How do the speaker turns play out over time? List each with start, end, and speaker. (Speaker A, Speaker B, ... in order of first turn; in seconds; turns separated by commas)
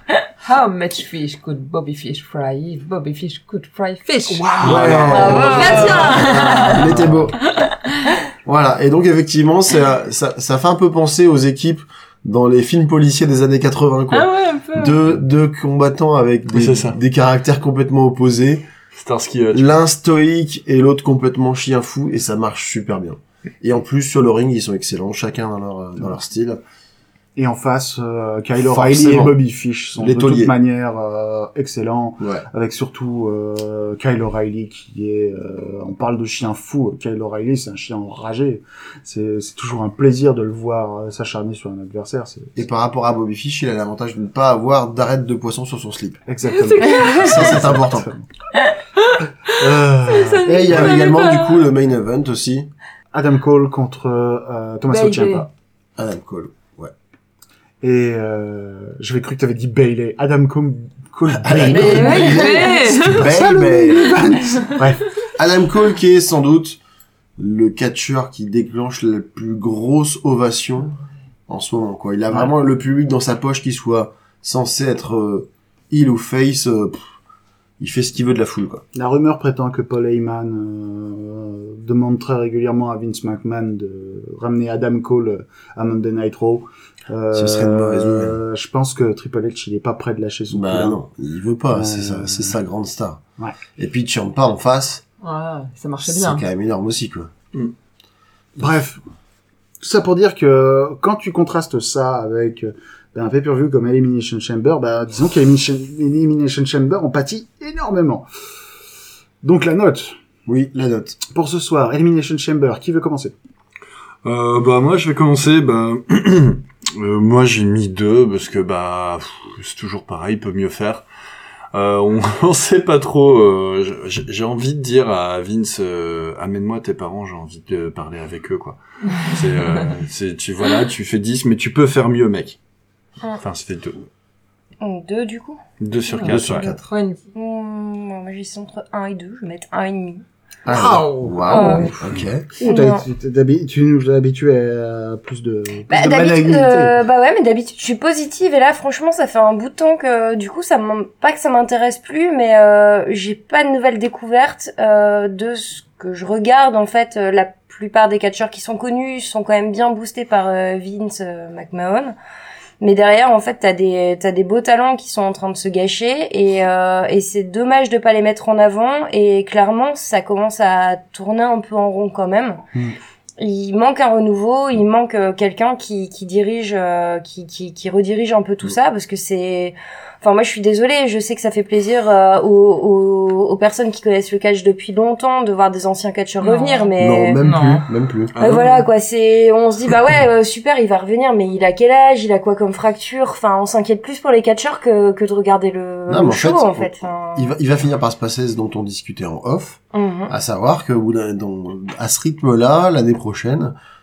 Speaker A: 0.4-6.9, Speaker B: 4.2-7.2, Speaker C: 4.6-7.3, Speaker D: 5.1-6.9, Speaker E: 5.6-6.0, Speaker C: 8.4-18.7, Speaker A: 14.1-15.0, Speaker E: 16.5-17.0, Speaker E: 18.9-19.7, Speaker C: 19.5-26.6, Speaker B: 27.4-42.6, Speaker C: 28.6-29.4, Speaker C: 30.0-30.5, Speaker C: 32.2-32.5, Speaker C: 42.5-46.2, Speaker B: 46.2-48.3, Speaker A: 46.7-47.4, Speaker C: 46.9-48.1, Speaker B: 49.6-51.0, Speaker A: 50.0-51.6, Speaker C: 50.4-52.7, Speaker B: 53.1-55.5, Speaker A: 54.9-55.4, Speaker D: 54.9-55.4, Speaker C: 56.0-56.9, Speaker B: 57.8-65.1, Speaker C: 61.4-64.3, Speaker D: 61.6-62.9, Speaker A: 61.7-63.2, Speaker C: 65.3-66.8, Speaker C: 67.4-70.9, Speaker C: 71.5-77.1, Speaker C: 77.8-78.8, Speaker B: 78.9-91.0, Speaker C: 87.3-88.4, Speaker C: 90.5-93.2, Speaker B: 91.7-92.6, Speaker C: 93.8-95.0, Speaker A: 95.2-96.5, Speaker C: 96.0-97.3, Speaker B: 98.5-99.0, Speaker B: 99.8-108.2, Speaker B: 109.4-110.1, Speaker C: 110.5-111.2, Speaker B: 111.3-113.3, Speaker E: 114.2-121.0, Speaker E: 121.7-132.6, Speaker E: 133.3-134.0, Speaker D: 134.8-135.6, Speaker E: 135.8-136.7, Speaker C: 136.2-136.8, Speaker A: 136.4-137.2, Speaker D: 137.3-140.2, Speaker C: 140.7-142.5, Speaker A: 140.7-142.0, Speaker D: 141.4-142.0, Speaker D: 142.6-143.0, Speaker B: 142.6-147.0, Speaker D: 145.9-162.1, Speaker D: 162.8-172.6, Speaker D: 173.4-187.4, Speaker A: 186.4-187.8, Speaker C: 187.0-188.3, Speaker E: 188.3-188.8, Speaker D: 188.4-197.5, Speaker C: 196.1-203.7, Speaker D: 199.9-200.3